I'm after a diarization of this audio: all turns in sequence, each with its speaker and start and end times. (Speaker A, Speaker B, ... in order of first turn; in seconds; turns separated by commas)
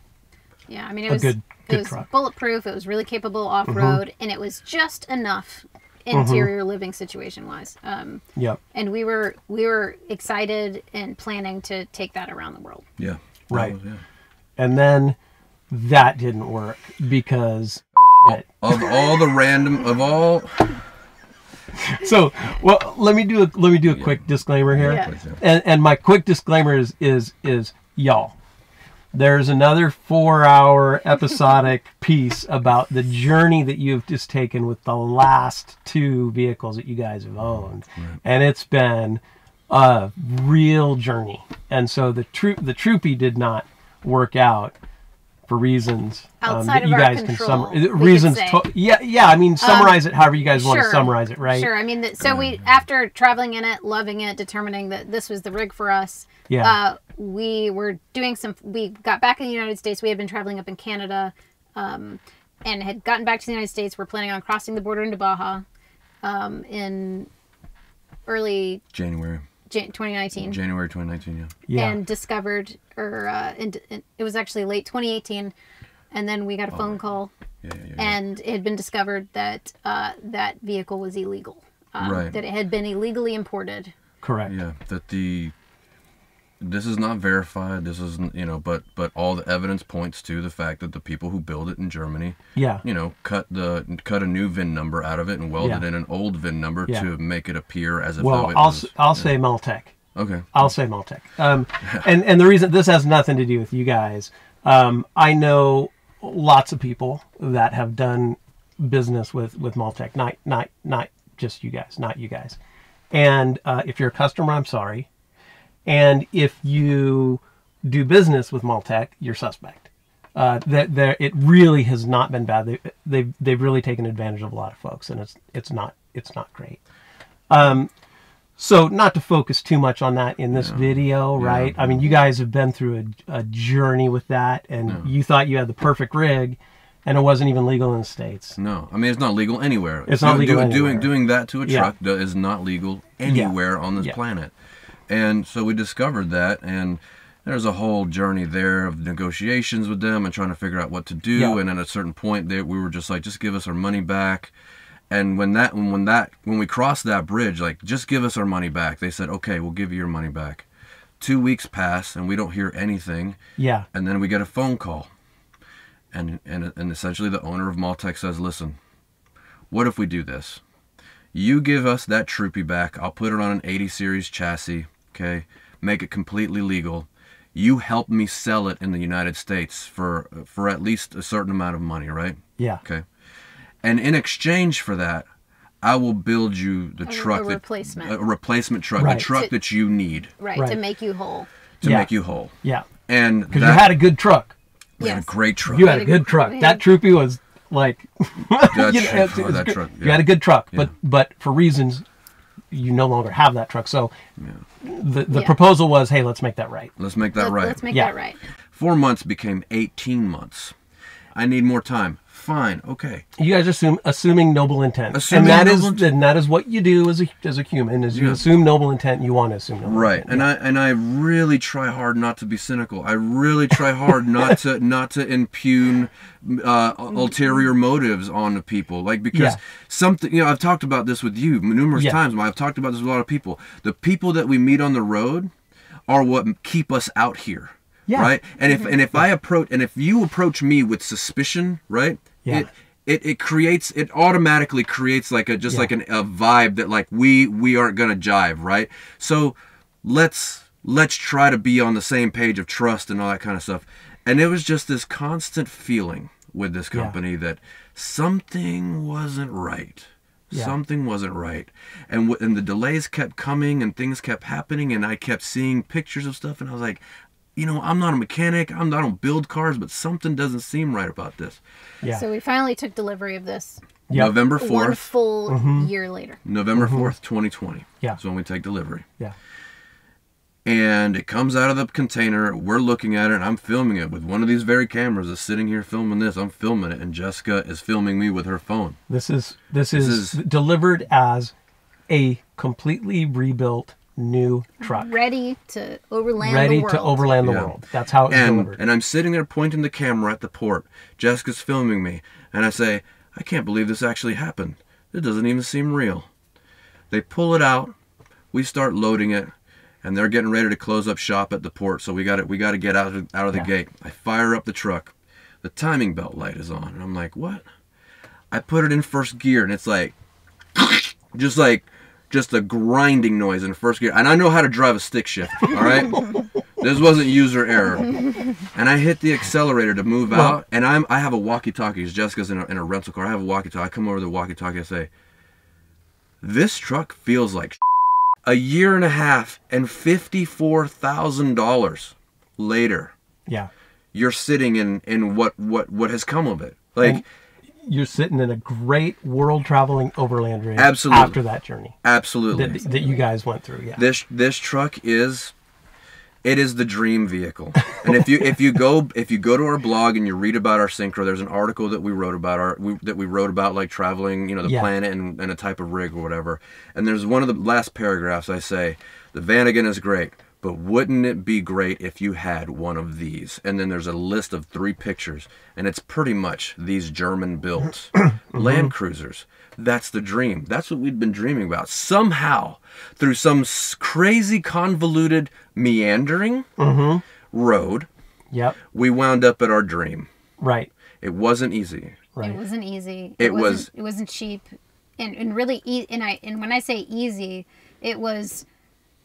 Speaker A: 0.7-8.2, Speaker B: 1.1-2.1, Speaker B: 3.7-4.0, Speaker B: 6.1-6.5, Speaker B: 8.3-8.6, Speaker A: 8.7-12.8, Speaker C: 13.0-14.0, Speaker B: 13.5-13.8, Speaker B: 14.6-15.2, Speaker B: 15.7-19.0, Speaker C: 18.2-20.8, Speaker B: 21.8-28.4, Speaker C: 23.9-24.2, Speaker C: 24.8-25.4, Speaker A: 24.8-25.1, Speaker B: 29.1-44.8, Speaker B: 45.5-51.7, Speaker A: 46.4-48.6, Speaker A: 49.6-65.6, Speaker C: 52.2-52.6, Speaker B: 56.5-56.8, Speaker A: 66.2-67.3, Speaker A: 68.3-68.8, Speaker C: 68.9-69.5, Speaker A: 69.7-70.6, Speaker C: 70.4-71.6, Speaker B: 71.7-72.0, Speaker A: 71.7-75.5, Speaker A: 76.1-77.3, Speaker C: 76.7-77.0, Speaker C: 77.6-78.2, Speaker A: 78.0-83.9, Speaker C: 82.0-82.4, Speaker B: 84.2-84.5, Speaker C: 84.5-85.5, Speaker C: 86.6-99.3, Speaker B: 92.5-92.8, Speaker B: 95.6-95.8, Speaker B: 98.2-99.9, Speaker C: 100.2-100.5, Speaker B: 100.5-112.6, Speaker B: 113.1-115.1, Speaker B: 115.9-126.8, Speaker B: 127.5-127.9, Speaker B: 128.6-138.6, Speaker C: 130.5-132.1, Speaker C: 134.9-135.1, Speaker C: 138.6-144.5, Speaker B: 140.1-141.1, Speaker B: 141.6-141.9, Speaker B: 143.3-144.2, Speaker C: 145.1-154.5, Speaker C: 155.1-160.7, Speaker C: 161.2-163.4, Speaker B: 163.6-163.9, Speaker C: 163.9-165.1, Speaker C: 166.1-168.8, Speaker C: 169.7-170.6, Speaker C: 171.3-183.1, Speaker B: 182.6-182.8, Speaker C: 183.8-185.3, Speaker C: 185.8-190.3, Speaker A: 187.1-188.2, Speaker B: 189.0-189.3, Speaker A: 190.4-191.5, Speaker C: 191.8-192.6, Speaker B: 191.8-192.1, Speaker B: 192.6-192.9, Speaker C: 193.1-194.0, Speaker B: 193.5-194.6, Speaker C: 195.0-196.0, Speaker A: 195.0-196.8, Speaker B: 195.7-202.1, Speaker C: 198.7-200.9, Speaker B: 202.7-204.1, Speaker B: 204.8-206.9, Speaker A: 205.3-205.6, Speaker C: 207.0-207.8, Speaker A: 207.4-208.4, Speaker C: 208.7-210.8, Speaker C: 211.3-213.2, Speaker B: 213.4-220.5, Speaker C: 215.1-216.1, Speaker C: 218.1-218.4, Speaker C: 219.8-235.5, Speaker B: 229.3-229.6, Speaker C: 236.1-267.0, Speaker B: 238.1-238.3, Speaker A: 238.7-238.9, Speaker B: 242.4-242.7, Speaker C: 267.6-271.6, Speaker A: 272.1-273.8, Speaker B: 274.1-274.4, Speaker C: 274.1-275.1, Speaker A: 274.5-276.4, Speaker B: 275.5-275.9, Speaker C: 276.4-279.1, Speaker B: 276.8-277.1, Speaker C: 280.6-289.0, Speaker B: 289.1-291.5, Speaker C: 289.9-290.4, Speaker B: 292.1-295.1, Speaker A: 294.8-297.4, Speaker B: 296.4-298.8, Speaker C: 297.4-297.7, Speaker C: 298.3-306.3, Speaker C: 307.1-307.9, Speaker C: 308.5-317.6, Speaker C: 318.5-320.1, Speaker C: 320.7-326.3, Speaker C: 326.8-328.2, Speaker C: 328.7-335.1, Speaker B: 330.3-330.6, Speaker C: 336.4-337.8, Speaker C: 338.4-343.1, Speaker C: 344.1-347.2, Speaker B: 347.8-352.0, Speaker C: 350.8-351.4, Speaker C: 352.0-352.8, Speaker B: 352.5-354.0, Speaker A: 352.8-353.1, Speaker C: 354.0-355.5, Speaker C: 356.4-386.7, Speaker B: 364.6-364.9, Speaker B: 378.2-378.9, Speaker B: 386.8-387.2, Speaker C: 387.5-388.1, Speaker B: 388.5-388.8, Speaker C: 388.9-390.3, Speaker B: 390.6-390.9, Speaker C: 391.2-392.2, Speaker B: 392.4-392.6, Speaker A: 392.4-394.6, Speaker C: 393.4-393.9, Speaker A: 395.2-398.6